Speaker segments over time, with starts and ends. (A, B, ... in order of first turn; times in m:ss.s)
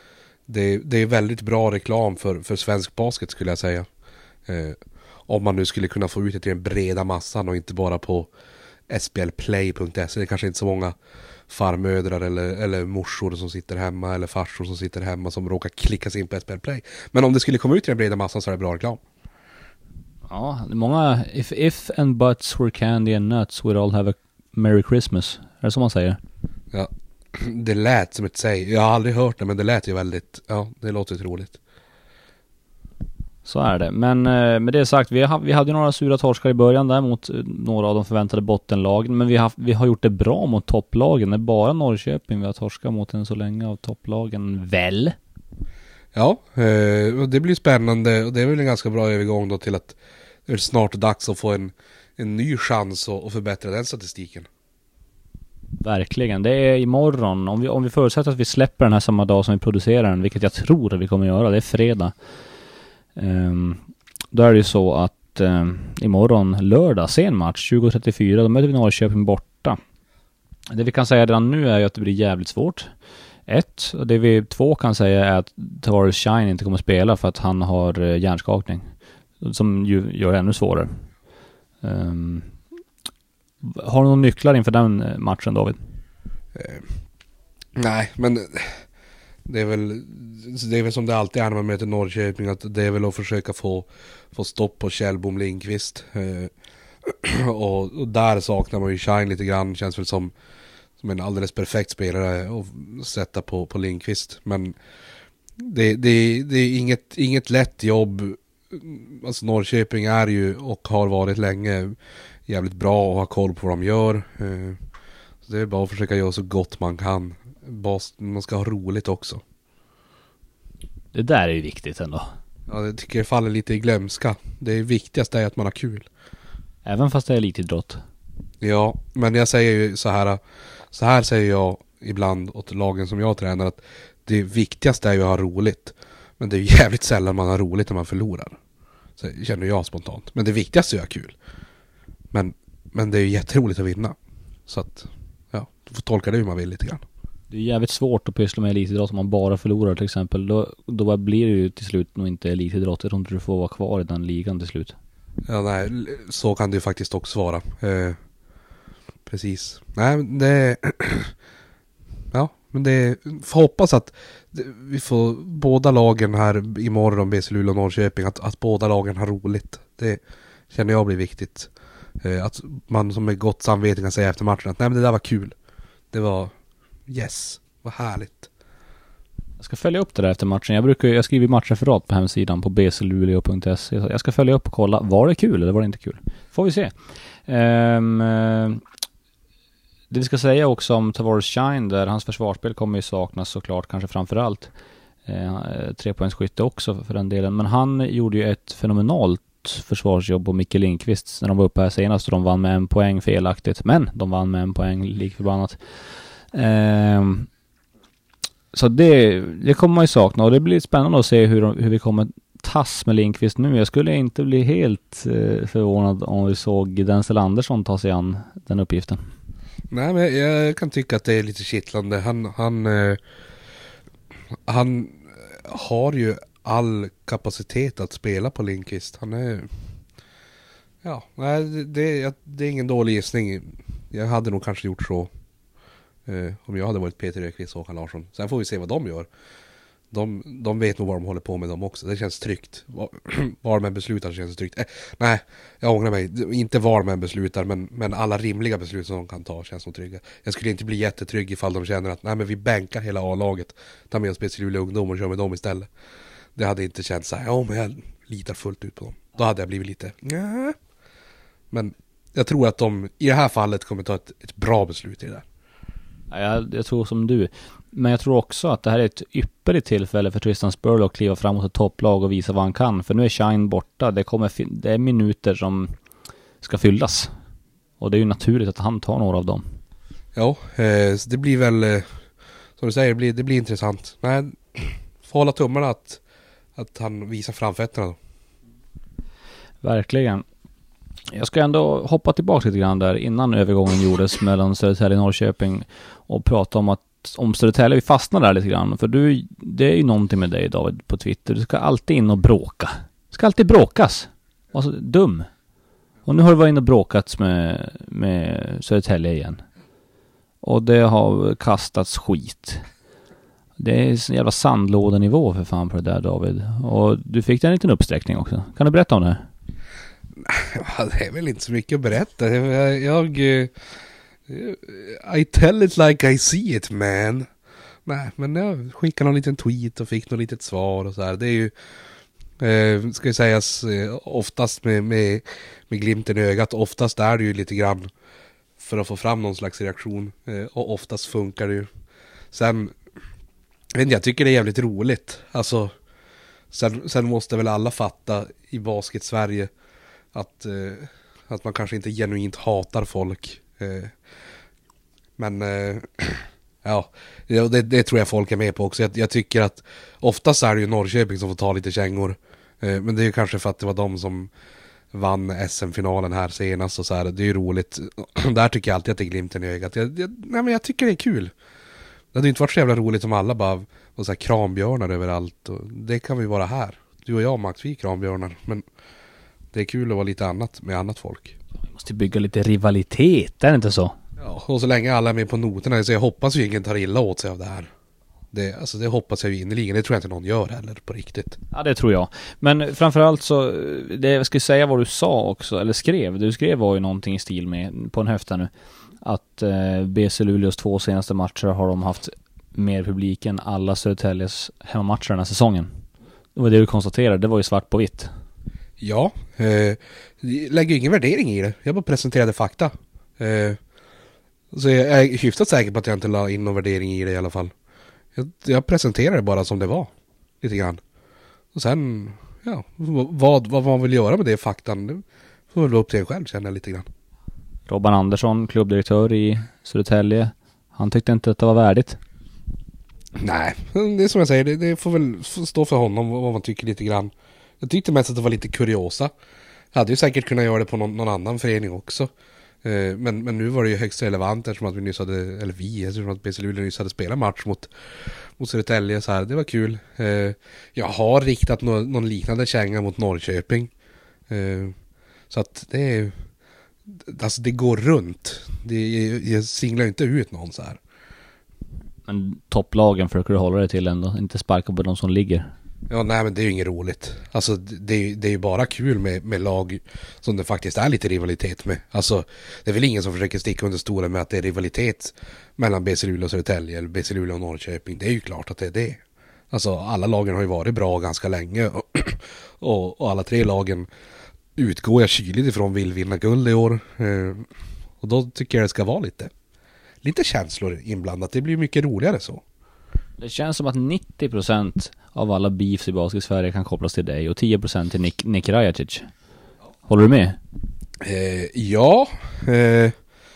0:00.5-0:03.9 A
0:04.4-0:08.3 A
0:08.9-0:10.9 A
0:11.5-0:19.0 A
0:20.3-0:26.2 B
0:26.7-0:31.6 A
0:33.4-0:45.2 B
0:46.1-0:54.5 A
0:55.8-1:02.1 B
1:03.2-1:03.8 B
1:04.3-1:09.8 B
1:10.7-1:12.9 B
1:13.5-1:18.9 B
1:19.4-1:20.9 B
1:21.8-1:22.5 B
1:23.6-1:25.8 B
1:26.5-1:26.9 A
1:27.8-1:28.8 A
1:29.4-1:36.5 A
1:37.0-1:40.3 A
1:41.0-1:44.7 A
1:45.6-1:51.9 A
1:52.5-1:54.8 A
1:55.4-1:59.4 A
2:01.1-2:02.3 B
2:02.7-2:06.1 A
2:06.8-2:08.0 B
2:08.6-2:10.4 A
2:10.9-2:18.6 A
2:19.2-2:21.4 A
2:22.3-2:24.2 A
2:24.7-2:27.0 A
2:27.5-2:34.9 B
2:35.5-2:38.2 A
2:39.3-2:41.3 A
2:42.3-2:50.2 A
2:50.7-2:51.7 A
2:52.2-2:55.5 A
2:56.1-2:56.5 A
2:57.1-2:58.5 A
2:59.6-3:06.9 B
3:07.5-3:08.8 B
3:10.1-3:14.7 B
3:15.2-3:25.8 B
3:26.5-3:27.5 B
3:28.7-3:39.2 B
3:39.9-3:43.2 A
3:44.7-3:49.7 A
3:51.0-3:55.3 A
3:56.3-3:59.3 A
4:00.1-4:15.9 A
4:16.6-4:20.8 A
4:21.7-4:25.4 A
4:26.3-4:35.9 B
4:36.6-4:37.3 B
4:38.0-4:39.6 B
4:40.3-4:42.0 A
4:42.8-4:46.2 A
4:46.8-4:48.2 A
4:49.8-4:50.4 B
4:51.3-5:05.5 B
5:06.2-5:09.6 B
5:10.6-5:12.8 B
5:13.8-5:19.5 B
5:20.4-5:23.7 A
5:24.5-5:27.5 A
5:28.0-5:31.7 A
5:32.6-5:38.1 A
5:38.8-5:41.9 A
5:42.5-5:42.9 A
5:43.9-5:45.9 A
5:46.7-5:49.7 A
5:50.3-5:54.1 A
5:55.4-6:04.5 A
6:05.1-6:11.5 A
6:12.3-6:18.8 A
6:19.7-6:21.6 A
6:21.9-6:24.2 B
6:24.4-6:27.9 A
6:28.5-6:31.6 A
6:31.7-6:46.0 B
6:46.5-6:48.3 B
6:49.0-6:53.8 A
6:54.7-6:57.7 A
6:58.4-7:01.0 A
7:01.7-7:07.1 A
7:07.9-7:12.2 B
7:13.4-7:19.3 A
7:19.9-7:22.3 A
7:22.8-7:27.9 A
7:28.6-7:33.9 A
7:34.5-7:34.9 A
7:35.5-7:36.3 A
7:37.1-7:41.0 A
7:42.3-7:45.7 B
7:46.1-8:04.1 A
8:04.8-8:07.7 A
8:08.2-8:09.5 A
8:10.2-8:12.6 A
8:13.4-8:19.3 B
8:20.1-8:20.6 B
8:21.2-8:23.1 A